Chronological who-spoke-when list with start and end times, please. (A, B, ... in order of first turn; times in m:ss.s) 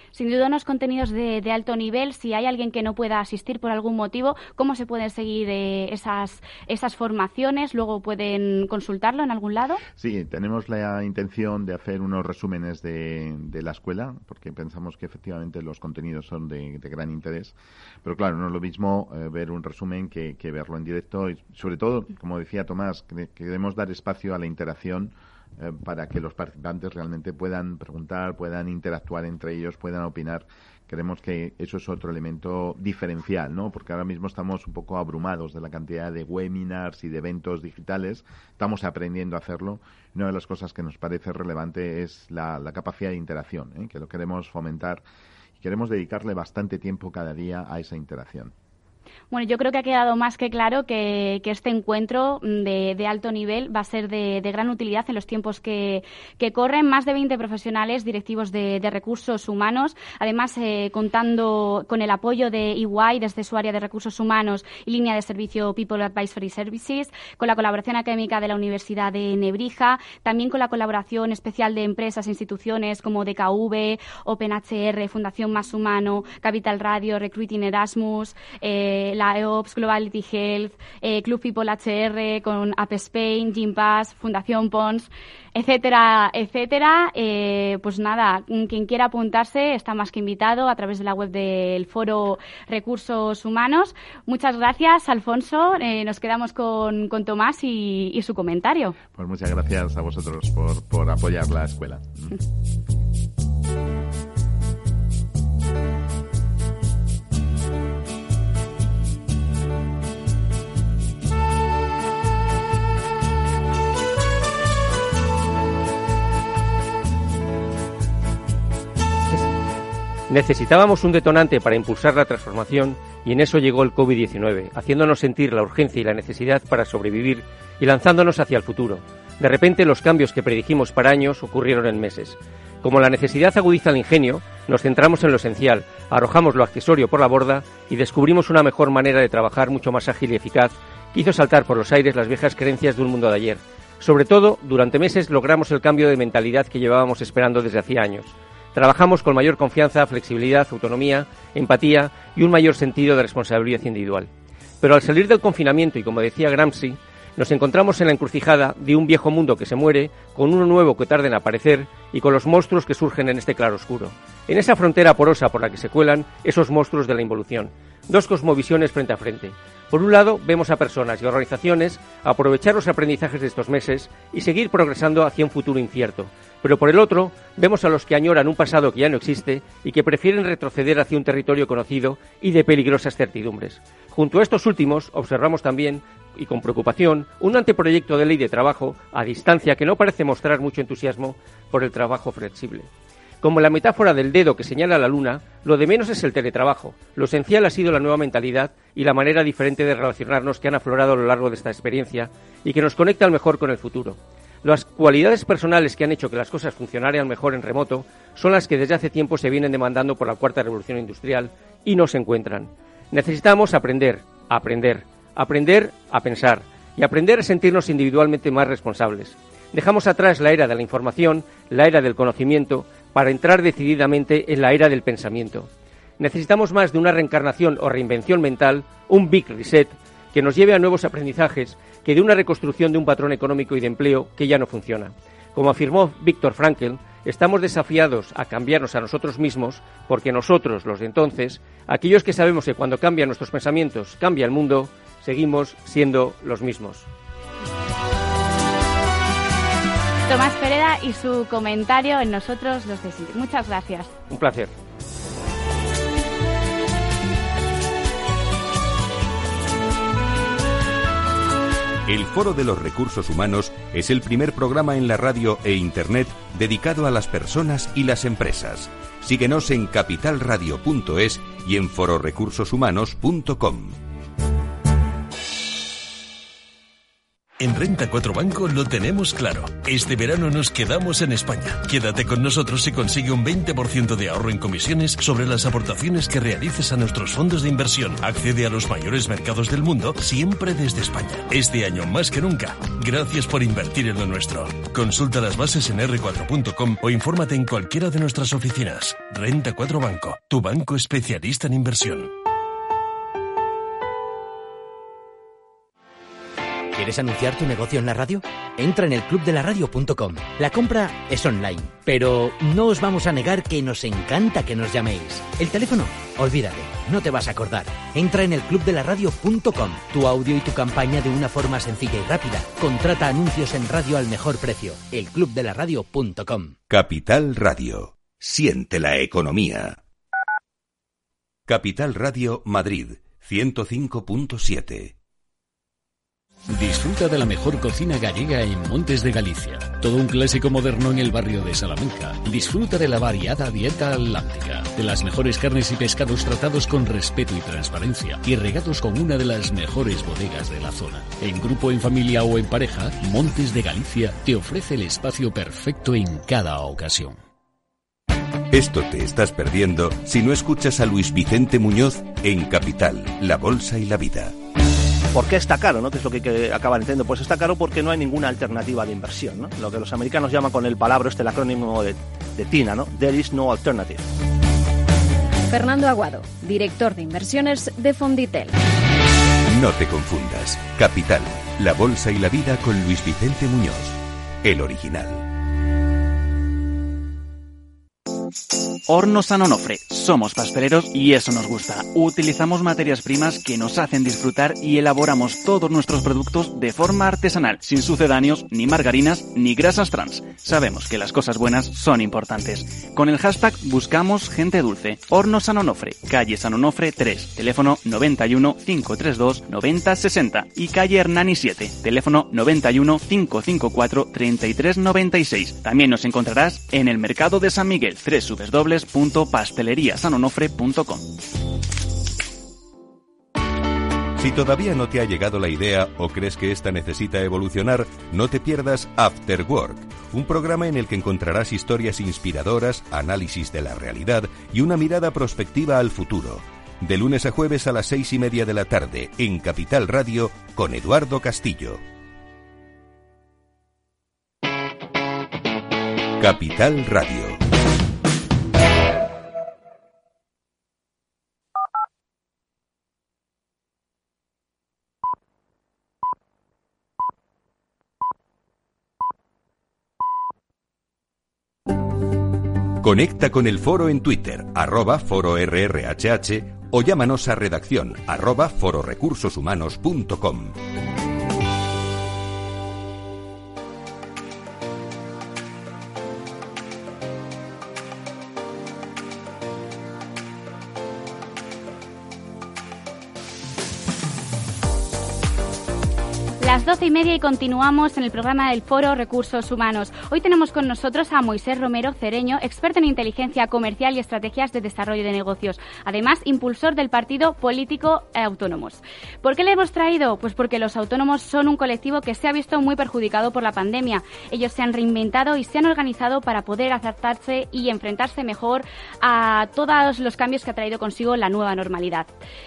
0:00.1-0:09.8 A
0:10.0-0:45.0 B
0:45.6-0:48.5 B
0:49.3-1:39.0 A
1:39.1-1:42.4 B
2:00.3-2:34.3 C
2:34.8-3:12.9 C
3:13.4-4:07.1 C
4:10.3-4:14.1 A
4:14.3-4:14.7 C
4:22.1-4:34.0 D
4:37.6-5:02.3 E
5:06.9-5:26.8 F
5:26.9-5:30.0 D
5:31.7-5:35.1 D
5:36.7-5:57.4 G
5:58.7-6:04.6 D
6:05.3-6:14.3 H
6:15.7-6:18.8 I
6:19.7-6:25.4 D
6:29.1-7:01.3 J
7:04.4-7:22.0 D
7:26.4-7:27.6 D
7:43.0-7:50.8 D
8:06.6-8:32.3 A